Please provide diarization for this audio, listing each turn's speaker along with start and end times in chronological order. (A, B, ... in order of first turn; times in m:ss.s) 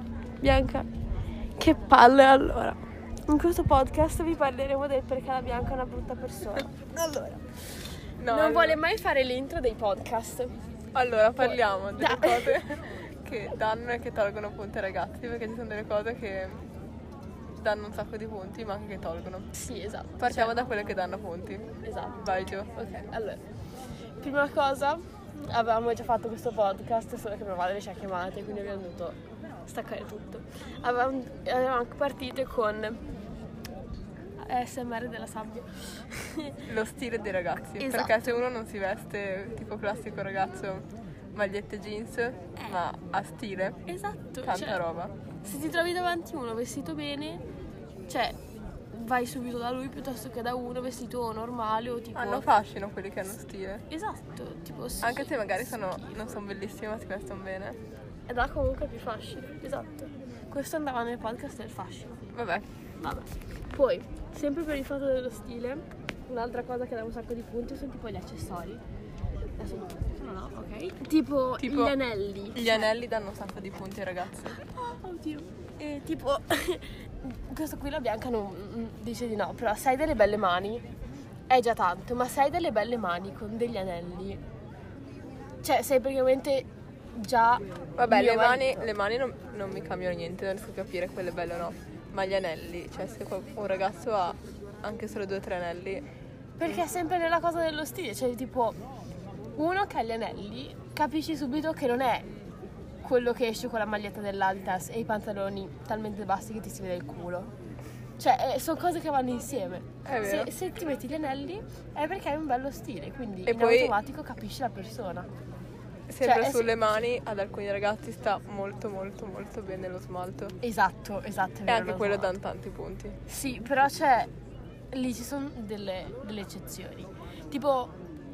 0:00.4-0:00.9 A
0:01.6-0:07.4 A
0:08.2-0:08.8 B
0:08.3-0:10.6 A
0:10.9-0:16.6 B
0:11.4-0:12.6 A
0:17.6-0:19.5 B
0:19.6-0:20.6 A
0:20.2-0:21.7 B
0:21.8-0:23.4 A
0:22.2-0:22.9 B
0:24.2-0:33.0 A
0:34.4-0:36.6 A
0:36.6-0:43.8 B
0:37.8-0:38.4 A
0:43.9-0:44.8 A
0:44.4-0:45.1 B
0:45.4-0:47.4 A
0:48.1-0:48.4 A
0:48.9-0:52.5 A
0:52.2-0:53.8 B
0:53.9-0:56.1 A
0:55.0-0:57.8 B
0:58.3-1:02.3 A
1:02.3-1:02.6 B
1:03.0-1:08.8 A
1:09.6-1:12.9 A
1:11.6-1:11.9 B
1:12.6-1:14.6 B
1:14.5-1:20.8 A
1:21.5-1:24.4 A
1:25.6-1:28.9 A
1:28.0-1:36.1 B
1:36.6-1:38.8 A
1:39.6-1:42.3 A
1:43.0-1:47.5 A
1:48.2-1:55.3 A
1:50.0-1:50.5 B
1:53.4-1:54.0 B
1:56.1-2:00.6 B
1:56.2-1:56.8 A
2:00.6-2:02.4 A
2:01.6-2:03.2 B
2:03.3-2:04.3 A
2:04.9-2:07.9 A